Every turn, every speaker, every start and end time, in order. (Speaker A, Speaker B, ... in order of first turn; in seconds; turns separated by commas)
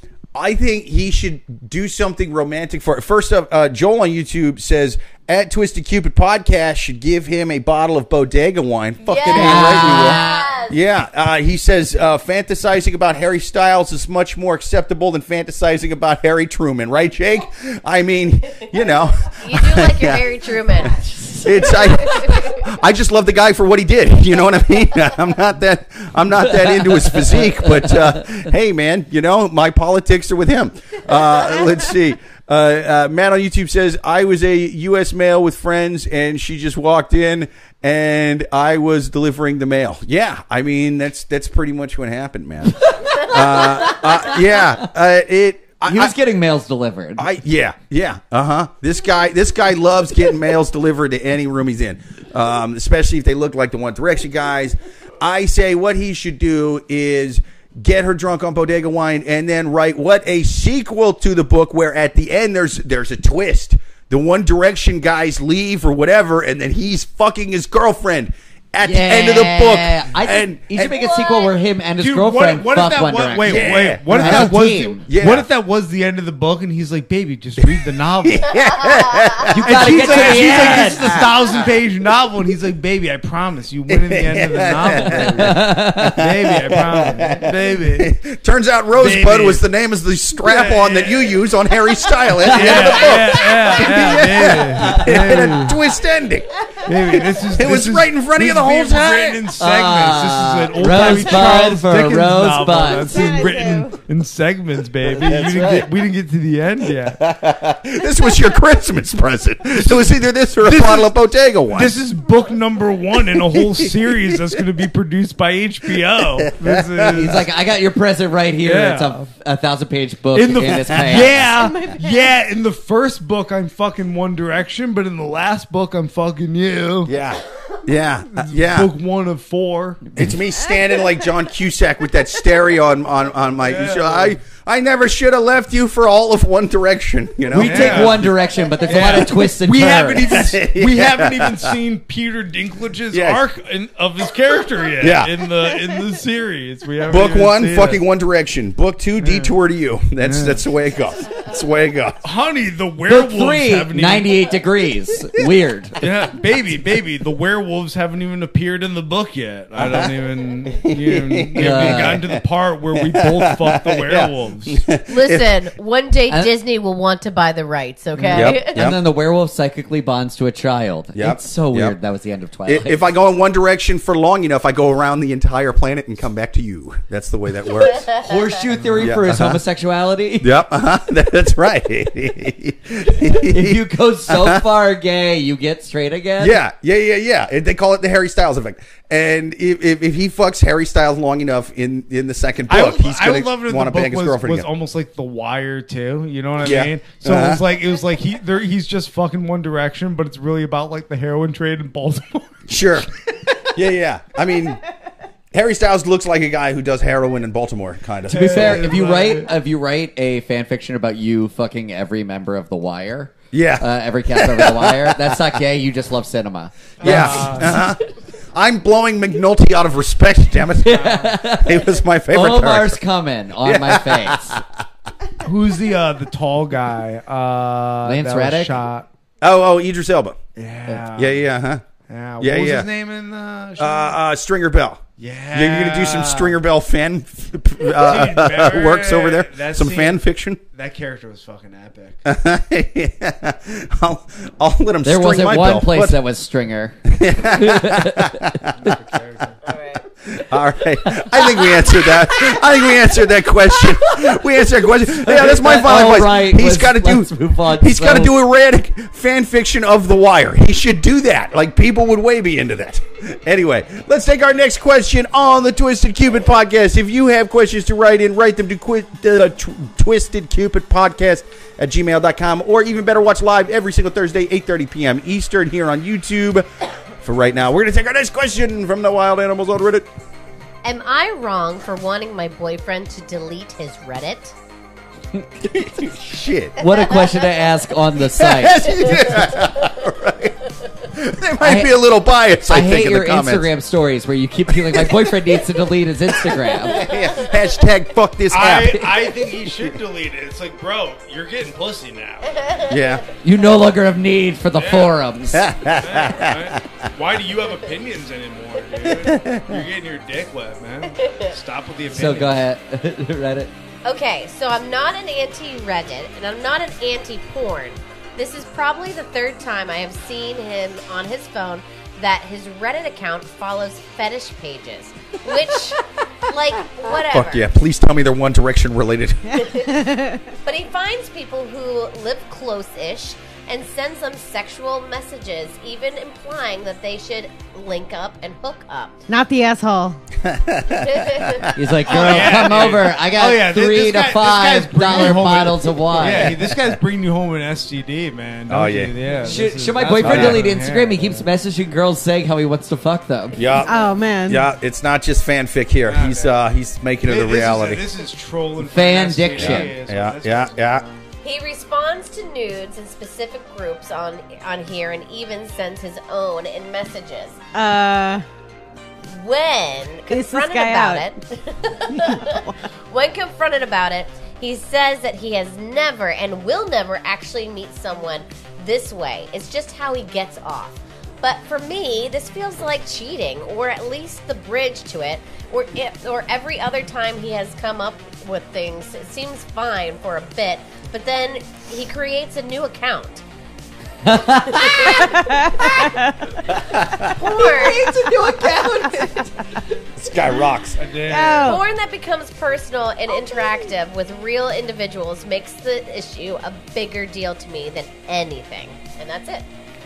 Speaker A: 0.3-46.1, Speaker B: 9.0-10.8, Speaker C: 9.3-10.5, Speaker B: 19.3-21.0, Speaker C: 21.0-22.3, Speaker B: 21.6-22.6, Speaker C: 26.5-28.4, Speaker C: 42.9-44.0, Speaker C: 45.9-47.3, Speaker A: 47.2-71.0, Speaker C: 68.8-75.0, Speaker B: 70.9-71.5, Speaker D: 72.0-78.6, Speaker A: 73.4-74.5, Speaker A: 75.1-75.5, Speaker A: 77.6-81.6, Speaker B: 79.0-79.3, Speaker C: 79.5-81.1, Speaker D: 79.6-88.1, Speaker A: 83.9-85.6, Speaker C: 85.0-86.2, Speaker A: 86.2-96.5, Speaker D: 89.0-89.6, Speaker D: 90.3-91.4, Speaker D: 92.4-95.8, Speaker C: 92.4-93.2, Speaker C: 93.9-95.7, Speaker D: 96.8-107.2, Speaker A: 97.5-99.5, Speaker C: 99.6-103.2, Speaker E: 102.8-104.0, Speaker A: 105.2-105.9, Speaker A: 107.2-111.9, Speaker D: 110.6-111.1, Speaker D: 111.7-117.5, Speaker A: 113.4-114.5, Speaker A: 116.4-117.4, Speaker C: 117.1-121.7, Speaker D: 118.6-119.3, Speaker D: 120.3-127.1, Speaker E: 121.5-122.3, Speaker A: 127.0-128.9, Speaker D: 128.3-130.1, Speaker A: 130.2-138.3, Speaker D: 133.6-134.4, Speaker C: 137.5-140.5, Speaker D: 137.5-148.0, Speaker A: 140.3-141.7, Speaker A: 143.1-143.4, Speaker A: 145.0-145.4, Speaker A: 147.1-152.2, Speaker D: 149.2-149.5, Speaker D: 150.2-150.6, Speaker D: 152.2-154.3, Speaker C: 153.1-156.0, Speaker D: 156.0-164.8, Speaker A: 159.7-160.1, Speaker A: 160.7-162.4, Speaker C: 161.6-162.2, Speaker A: 162.9-165.5, Speaker B: 165.1-168.8, Speaker A: 168.3-169.0, Speaker C: 168.3-173.0, Speaker A: 171.2-171.9, Speaker A: 172.7-178.1, Speaker C: 178.2-180.6, Speaker D: 178.8-179.1, Speaker A: 179.0-179.6, Speaker A: 180.4-184.6, Speaker C: 183.4-186.6, Speaker A: 186.4-194.7, Speaker D: 192.7-202.6, Speaker A: 196.6-197.6, Speaker A: 202.7-203.1, Speaker A: 203.7-204.8, Speaker A: 205.5-208.9, Speaker D: 208.3-209.5, Speaker C: 208.3-217.8, Speaker A: 213.5-215.4, Speaker D: 217.0-217.9, Speaker A: 217.0-218.0, Speaker A: 218.5-223.0, Speaker C: 220.8-224.6, Speaker D: 220.9-221.4, Speaker A: 223.6-224.6, Speaker D: 225.4-229.1, Speaker C: 228.0-228.8, Speaker A: 229.4-230.4, Speaker D: 230.6-231.4, Speaker A: 231.1-231.8, Speaker D: 232.1-234.2, Speaker A: 232.4-232.9, Speaker A: 233.8-240.6, Speaker D: 235.2-236.6, Speaker D: 237.9-242.2, Speaker A: 242.2-246.2, Speaker C: 245.0-248.6, Speaker A: 247.1-248.7, Speaker D: 248.7-249.6, Speaker B: 249.6-250.0, Speaker A: 250.2-276.7, Speaker C: 251.1-251.8, Speaker C: 255.1-258.3, Speaker A: 277.2-280.1, Speaker B: 280.8-284.5, Speaker A: 285.6-286.8, Speaker C: 286.8-289.0, Speaker A: 288.3-290.6, Speaker A: 291.1-293.7, Speaker C: 291.6-292.0, Speaker C: 292.6-297.1, Speaker A: 294.7-295.3, Speaker A: 296.8-299.1, Speaker B: 297.0-297.5, Speaker D: 298.5-302.6, Speaker B: 302.5-303.1, Speaker A: 302.9-303.2, Speaker C: 303.4-305.7, Speaker D: 304.7-305.2, Speaker A: 305.5-307.0, Speaker D: 305.8-312.6, Speaker A: 309.0-309.8, Speaker B: 311.2-311.5, Speaker C: 312.1-313.7, Speaker B: 314.0-327.6, Speaker A: 327.3-329.6, Speaker B: 329.6-329.9, Speaker E: 329.6-330.4, Speaker B: 330.6-339.2, Speaker E: 339.3-340.2, Speaker A: 340.4-342.3, Speaker B: 340.9-341.7, Speaker C: 341.8-346.6, Speaker D: 342.0-351.5, Speaker A: 346.2-346.9, Speaker A: 348.7-349.1, Speaker C: 349.4-353.6, Speaker A: 350.2-350.6, Speaker A: 353.6-353.9, Speaker E: 353.8-354.6, Speaker A: 354.5-358.0, Speaker D: 356.0-356.6, Speaker D: 357.2-361.2, Speaker C: 358.8-359.9, Speaker A: 359.6-361.0, Speaker B: 361.4-367.6, Speaker E: 367.7-368.4, Speaker B: 369.3-393.4, Speaker E: 370.3-371.2, Speaker E: 372.2-372.7, Speaker C: 394.2-395.3, Speaker B: 394.4-396.2, Speaker E: 395.0-396.6, Speaker A: 396.7-397.4, Speaker B: 397.3-398.2, Speaker E: 397.4-399.5, Speaker C: 397.6-399.5, Speaker A: 400.2-401.0, Speaker D: 401.0-401.8, Speaker E: 401.3-401.8, Speaker B: 401.6-409.7